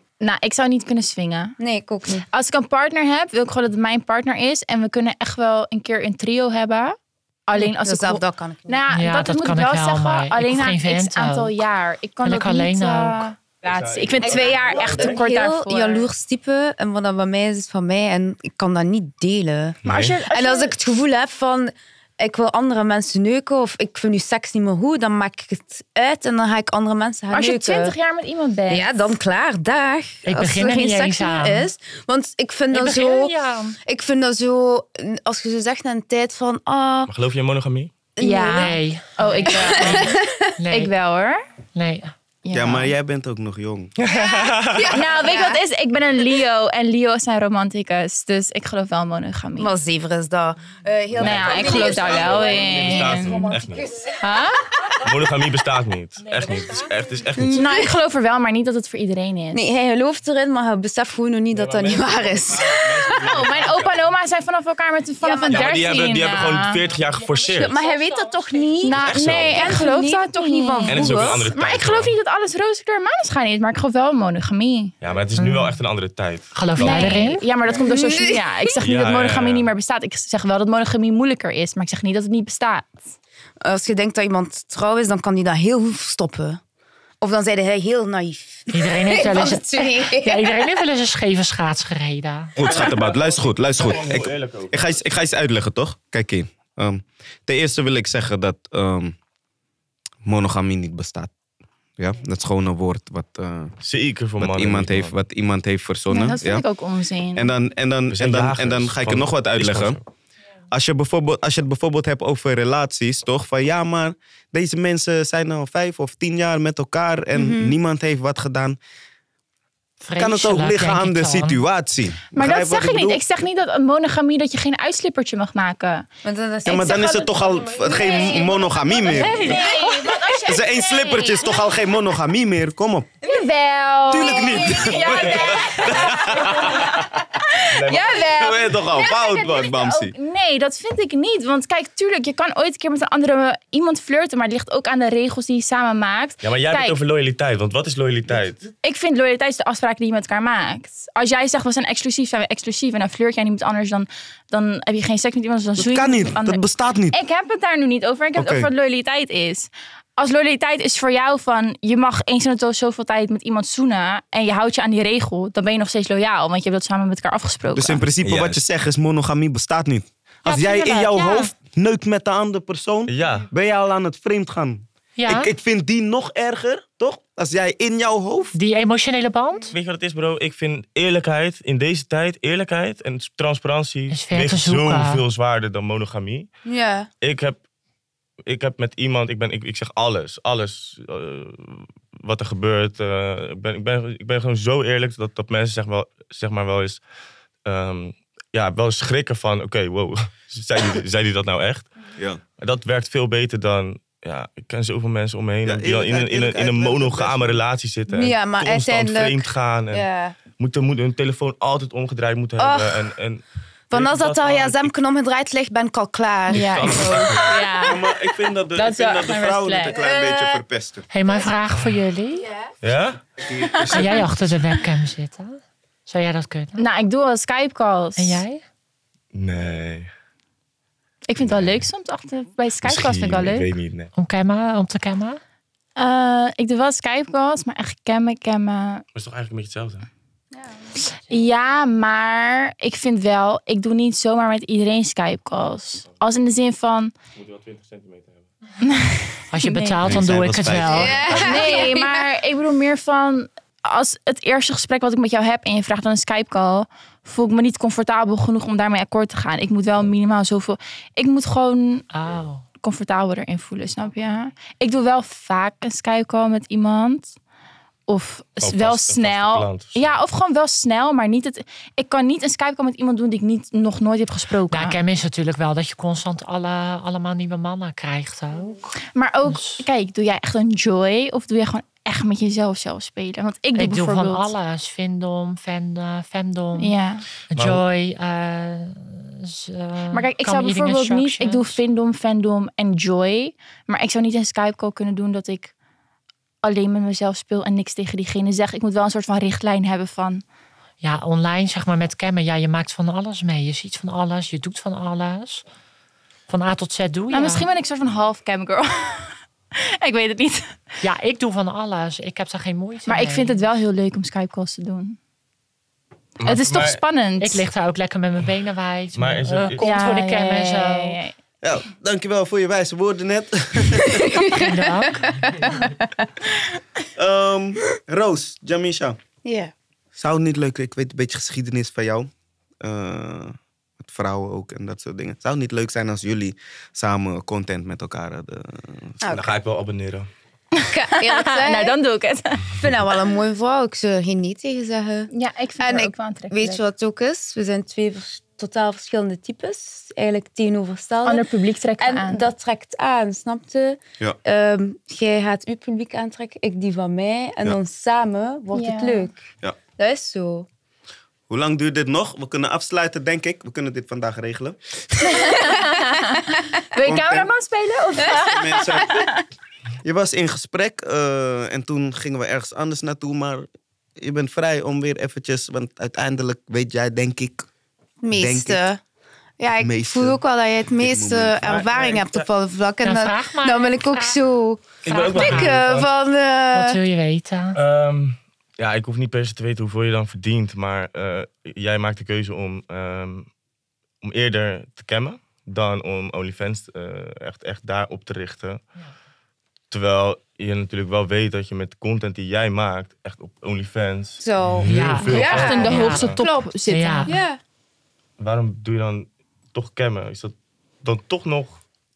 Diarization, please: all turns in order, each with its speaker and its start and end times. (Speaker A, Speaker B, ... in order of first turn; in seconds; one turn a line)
Speaker A: 0.2-1.6
Speaker B: 1.6-2.3
Speaker A: 2.3-7.0
Speaker A: 7.5-16.1
Speaker B: 7.6-8.8
Speaker C: 8.9-11.6
Speaker C: 12.2-13.3
Speaker D: 13.6-15.2
Speaker B: 14.2-27.9
Speaker D: 19.9-20.2
Speaker A: 19.9-20.8
Speaker A: 27.3-29.1
Speaker B: 28.7-33.3
Speaker C: 30.2-31.7
Speaker C: 32.7-33.8
Speaker B: 33.9-37.1
Speaker D: 37.1-37.9
Speaker B: 38.2-38.7
Speaker A: 38.2-40.2
Speaker C: 38.6-40.9
Speaker B: 39.5-40.5
Speaker A: 40.7-41.4
Speaker C: 41.8-42.1
Speaker A: 42.5-42.9
Speaker E: 42.5-43.9
Speaker D: 44.0-45.0
Speaker B: 44.3-45.6
Speaker A: 44.9-49.7
Speaker B: 49.6-54.2
Speaker D: 51.2-53.9
Speaker A: 51.2-53.5
Speaker A: 54.2-54.7
Speaker D: 55.0-57.6
Speaker C: 56.2-56.9
Speaker B: 57.4-58.0
Speaker A: 57.5-59.6
Speaker B: 59.5-63.2
Speaker D: 61.5-64.1
Speaker A: 63.1-66.8
Speaker B: 65.2-66.0
Speaker D: 65.5-67.8
Speaker C: 67.2-68.7
Speaker B: 67.5-71.5
Speaker A: 68.8-74.9
Speaker D: 69.0-69.8
Speaker D: 70.9-72.1
Speaker D: 75.0-77.0
Speaker C: 75.4-75.8
Speaker C: 76.5-77.4
Speaker A: 76.8-83.1
Speaker B: 77.8-78.7
Speaker D: 78.8-79.7
Speaker B: 83.6-86.6
Speaker B: 87.2-90.5
Speaker C: 88.7-92.6
Speaker E: 92.6-99.2
Speaker D: 92.6-94.9
Speaker E: 100.2-101.3
Speaker E: 102.0-103.7
Speaker D: 103.8-105.1
Speaker E: 104.4-106.6
Speaker A: 106.1-107.5
Speaker E: 107.4-110.0
Speaker D: 108.1-110.0
Speaker E: 110.7-118.8
Speaker B: 117.3-117.8
Speaker C: 120.0-121.6
Speaker E: 120.2-123.2
Speaker A: 122.3-126.1
Speaker B: 126.2-129.7
Speaker E: 126.7-129.6
Speaker A: 126.8-131.8
Speaker E: 130.4-133.1
Speaker A: 133.2-147.0
Speaker E: 134.1-137.0
Speaker B: 134.4-134.7
Speaker D: 135.0-137.0
Speaker D: 137.6-138.3
Speaker E: 138.3-140.2
Speaker D: 146.4-148.7
Speaker A: 148.8-168.0
Speaker E: 155.8-157.2
Speaker E: 158.4-158.7
Speaker E: 167.7-178.6
Speaker D: 168.2-168.6
Speaker C: 170.4-171.5
Speaker D: 173.1-173.5
Speaker C: 175.2-175.5
Speaker C: 178.5-179.8
Speaker D: 179.7-186.5
Speaker C: 184.1-185.2
Speaker B: 186.7-187.1
Speaker D: 187.2-187.6
Speaker D: 188.4-197.0
Speaker D: 197.7-201.9
Speaker D: 202.6-214.9
Speaker E: 205.7-207.6
Speaker B: 208.1-210.3
Speaker B: 212.6-213.1
Speaker B: 213.9-217.7
Speaker D: 216.5-217.6
Speaker A: 216.5-218.1
Speaker E: 217.8-221.1
Speaker A: 218.8-219.9
Speaker B: 220.0-220.6
Speaker C: 221.1-222.5
Speaker D: 222.8-223.2
Speaker E: 223.5-224.3
Speaker A: 223.7-224.1
Speaker C: 223.9-226.8
Speaker A: 226.8-228.4
Speaker C: 228.2-228.6
Speaker D: 229.3-230.1
Speaker A: 231.3-233.7
Speaker D: 231.4-231.9
Speaker D: 232.8-234.1
Speaker C: 234.2-235.4
Speaker A: 236.0-239.0
Speaker D: 239.1-240.1
Speaker A: 241.3-247.1
Speaker D: 247.3-248.4
Speaker A: 248.8-250.1
Speaker C: 249.5-251.2
Speaker E: 250.1-251.6
Speaker B: 250.9-252.2
Speaker D: 251.0-251.5
Speaker A: 251.3-262.0
Speaker C: 262.1-262.6
Speaker A: 262.8-267.3
Speaker A: 268.1-275.0
Speaker D: 268.6-270.2
Speaker C: 274.7-278.9
Speaker A: 279.1-284.5
Speaker C: 279.5-279.9
Speaker C: 283.8-286.9
Speaker A: 286.8-287.2
Speaker C: 287.5-291.8
Speaker D: 287.6-287.8
Speaker A: 290.1-295.7
Speaker A: 296.6-300.4
Speaker C: 301.0-305.6
Speaker C: 306.5-307.7
Speaker A: 307.3-310.8
Speaker C: 311.0-313.7
Speaker A: 313.1-315.2
Speaker D: 316.4-317.0
Speaker A: 316.4-317.6
Speaker C: 317.4-321.2
Speaker D: 319.2-319.9
Speaker A: 319.8-321.3
Speaker E: 321.6-324.5
Speaker B: 324.0-324.7
Speaker C: 324.5-325.7
Speaker B: 325.2-325.8
Speaker E: 327.2-329.2
Speaker B: 329.4-329.7
Speaker E: 330.2-332.3
Speaker E: 332.8-339.1
Speaker D: 339.2-340.3
Speaker A: 340.8-342.7
Speaker B: 340.9-342.0
Speaker B: 342.7-351.5
Speaker A: 345.3-346.8
Speaker A: 351.2-352.5
Speaker B: 352.0-359.4
Speaker A: 358.7-359.3
Speaker B: 360.0-360.7
Speaker E: 361.5-365.6
Speaker B: 365.4-365.7
Speaker A: 365.4-369.4
Speaker E: 367.0-367.5
Speaker E: 368.3-369.3
Speaker E: 370.0-373.7
Speaker E: 374.2-377.6
Speaker B: 378.2-379.0
Speaker E: 378.3-378.8
Speaker B: 379.6-387.0
Speaker E: 379.8-380.4
Speaker E: 380.9-382.2
Speaker D: 381.6-382.5
Speaker C: 383.0-384.4
Speaker D: 385.0-386.1
Speaker C: 385.1-385.8
Speaker C: 386.7-387.8
Speaker D: 387.8-393.5
Speaker D: 394.2-398.8
Speaker D: 399.9-406.4
Speaker B: 404.4-406.7
Speaker C: 404.8-407.4
Speaker A: 405.3-407.4
Speaker B: 407.3-407.6
Speaker D: 408.4-411.8